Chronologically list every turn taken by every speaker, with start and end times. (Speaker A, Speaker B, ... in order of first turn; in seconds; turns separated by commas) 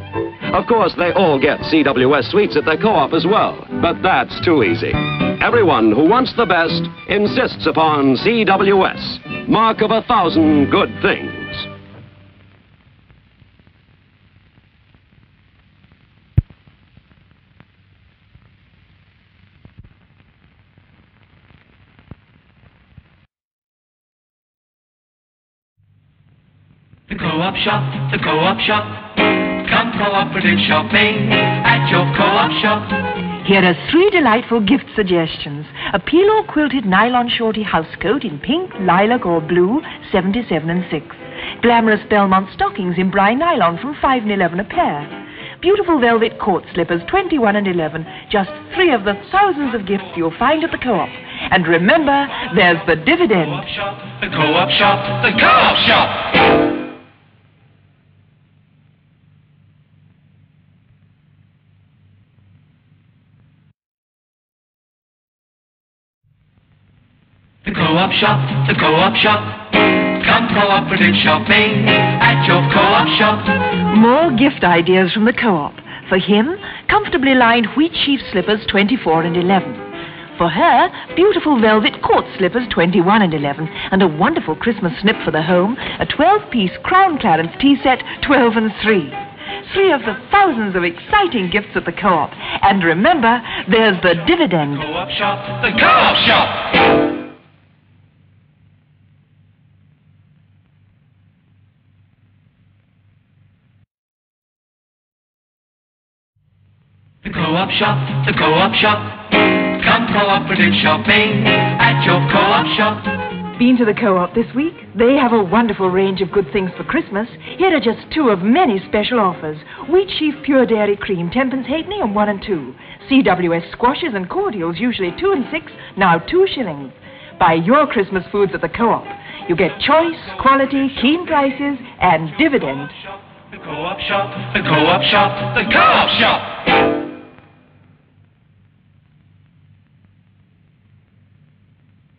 Speaker A: 0.5-11.7, Speaker B: 27.1-33.0, Speaker C: 33.4-53.6, Speaker B: 53.9-56.3, Speaker B: 67.7-73.6, Speaker C: 73.9-79.8, Speaker C: 80.4-94.9, Speaker B: 95.0-96.7, Speaker B: 107.2-113.2, Speaker C: 113.6-132.9, Speaker B: 133.5-136.6